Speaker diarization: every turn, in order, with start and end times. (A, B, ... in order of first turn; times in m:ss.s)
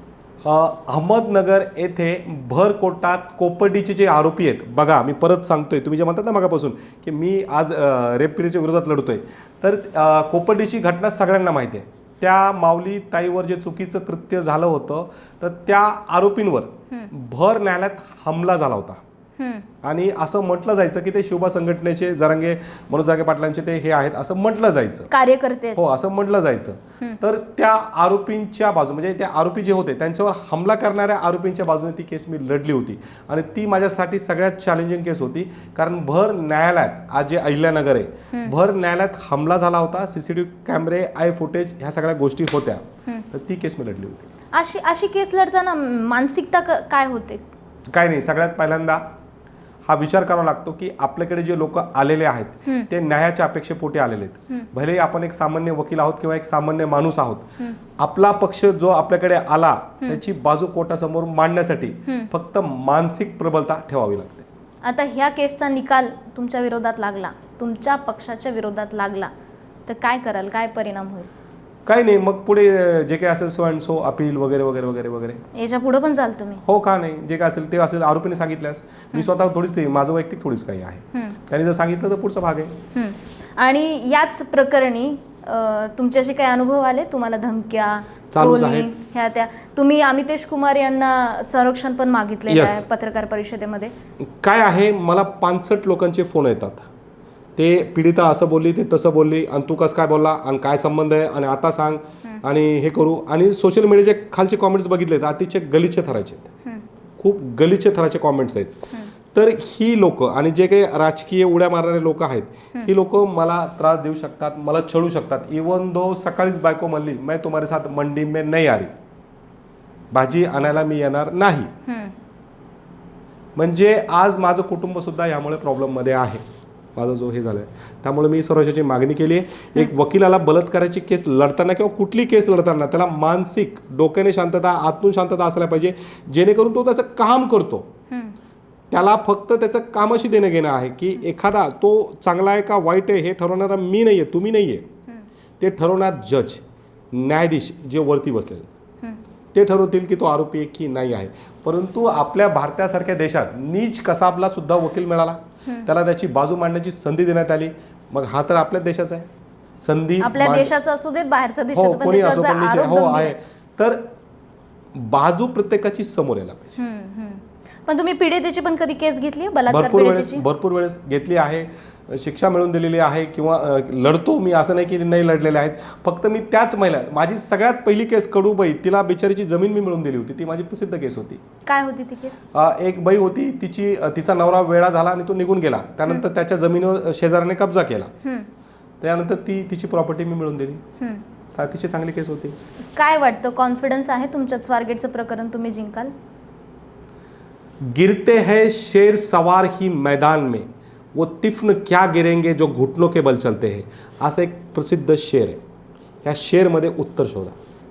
0:00.4-0:19.0 A
0:19.4-0:19.6 B
0:19.8-0:25.1 A
0:25.1-0:25.8 B
0:25.7-0:44.3 A
0:44.5-0:47.4 B
0:47.9-0:49.0 A
0:49.8-1:04.4 A
1:04.8-1:09.3 B
1:09.9-1:11.3 B
1:11.8-1:15.4 A
1:15.5-1:16.6 B
1:16.6-1:22.8 A
1:22.9-1:33.9 B
1:28.3-1:28.9 A
1:32.5-1:32.8 A
1:34.2-1:36.9 A
1:37.6-1:46.5 A
1:47.2-1:48.8 A
1:49.3-1:58.9 A
2:00.1-2:01.7 A
2:01.8-2:02.1 B
2:03.6-2:06.4 A
2:07.0-2:17.9 A
2:18.9-2:24.9 A
2:25.6-2:28.7 A
2:29.5-2:40.7 A
2:40.2-2:43.3 B
2:41.7-2:44.0 A
2:44.9-2:46.8 A
2:46.8-2:50.4 B
2:49.7-3:01.4 A
3:01.6-3:02.4 B
3:02.5-3:08.1 A
3:09.0-3:10.8 A
3:11.5-3:12.6 A
3:13.0-3:16.1 B
3:17.8-3:25.6 A
3:26.2-3:27.6 A